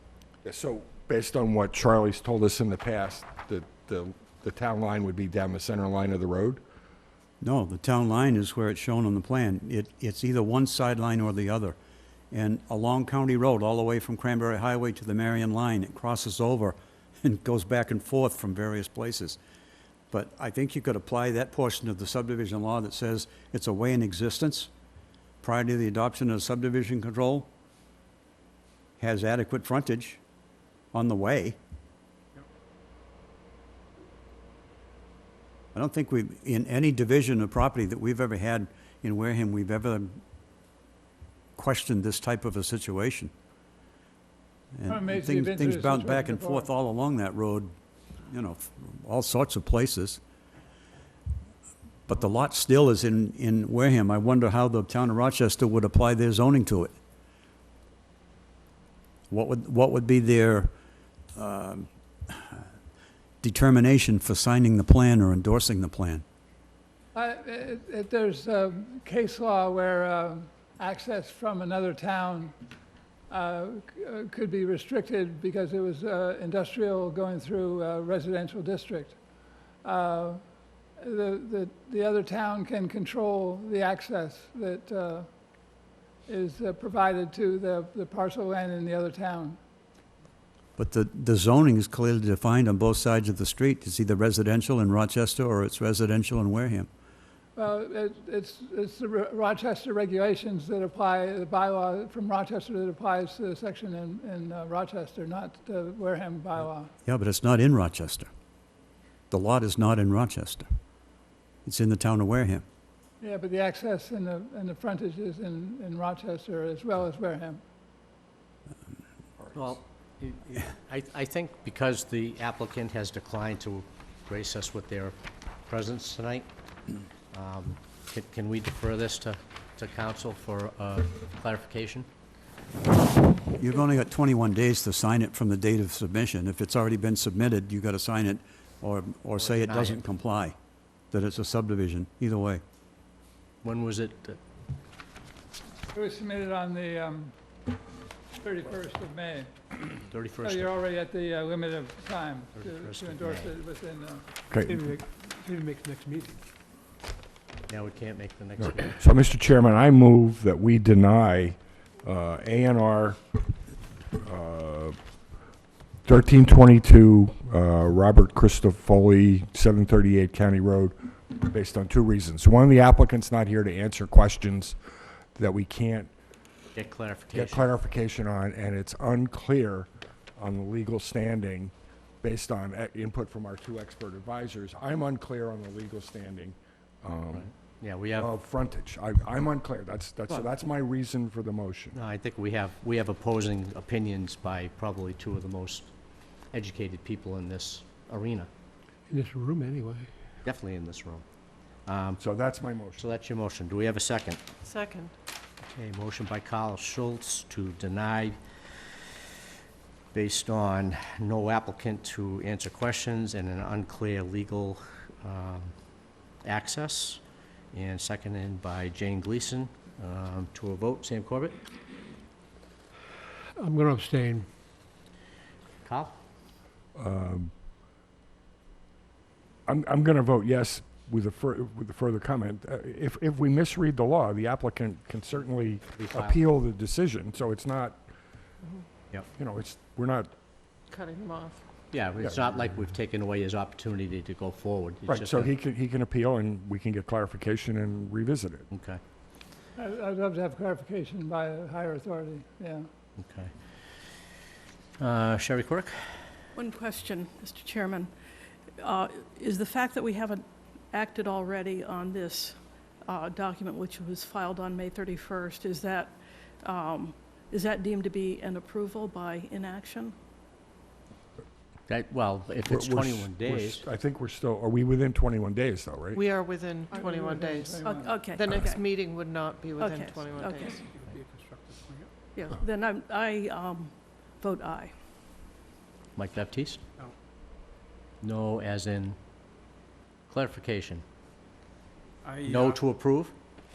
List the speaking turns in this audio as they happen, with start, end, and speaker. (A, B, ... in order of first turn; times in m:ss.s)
0:00.4-0:06.6 A
0:07.4-0:11.8 B
0:12.3-0:19.4 B
0:20.1-0:24.7 B
0:25.4-0:27.5 B
0:29.0-0:30.2 B
0:30.9-0:31.6 B
0:35.7-0:40.2 B
0:41.6-0:43.3 B
0:44.7-0:47.7 B
0:44.9-0:46.7 C
0:48.3-0:50.2 B
0:52.1-0:56.9 B
0:59.3-1:00.7 B
1:01.4-1:02.6 B
1:03.4-1:06.2 B
1:07.1-1:12.5 C
1:13.3-1:19.2 C
1:19.8-1:20.4 C
1:21.0-1:25.3 C
1:26.3-1:29.6 C
1:30.8-1:36.9 B
1:37.6-1:46.9 C
1:47.0-1:48.3 B
1:49.3-1:50.7 B
1:51.6-1:52.6 B
1:53.2-1:57.6 C
1:59.5-2:06.5 D
2:07.3-2:12.1 D
2:13.5-2:20.5 B
2:19.4-2:20.0 D
2:21.1-2:22.6 B
2:23.6-2:24.4 D
2:25.9-2:27.3 C
2:28.4-2:29.5 C
2:30.1-2:30.8 D
2:30.4-2:34.3 C
2:32.5-2:33.5 D
2:34.5-2:34.8 A
2:34.6-2:36.4 E
2:37.7-2:39.0 D
2:38.6-2:43.2 A
2:44.2-2:45.0 A
2:46.0-2:54.8 A
2:55.4-2:56.1 A
2:56.8-2:57.7 D
2:57.3-3:07.5 A
3:07.3-3:08.3 D
3:08.2-3:12.0 A
3:11.9-3:15.9 D
3:16.5-3:18.5 D
3:19.1-3:20.1 E
3:20.4-3:21.2 D
3:21.8-3:22.2 D
3:22.2-3:23.1 A
3:23.0-3:24.4 D
3:24.6-3:25.1 F
3:25.6-3:28.4 D
3:30.1-3:35.7 D
3:36.4-3:37.2 D
3:37.7-3:41.6 D
3:43.6-3:44.5 E
3:45.8-3:46.2 D
3:47.0-3:47.5 A
3:49.7-3:58.0 A
3:56.0-3:56.4 D
3:59.4-4:00.3 A
4:00.9-4:01.6 F
4:01.9-4:05.5 D
4:02.2-4:02.7 A
4:05.0-4:08.7 A
4:08.7-4:09.0 D
4:09.8-4:12.9 C
4:13.2-4:13.5 D
4:15.0-4:15.9 D
4:16.6-4:18.1 G
4:18.8-4:30.1 G
4:31.9-4:33.8 D
4:32.6-4:36.2 A
4:36.1-4:40.7 F
4:36.9-4:38.2 C
4:37.8-4:38.8 G
4:39.8-4:40.8 G
4:40.4-4:42.1 H
4:42.3-4:44.9 G
4:46.2-4:46.8 D
4:48.2-4:49.2 D
4:50.3-4:51.0 D
4:52.2-4:52.9 H
4:52.4-4:53.3 D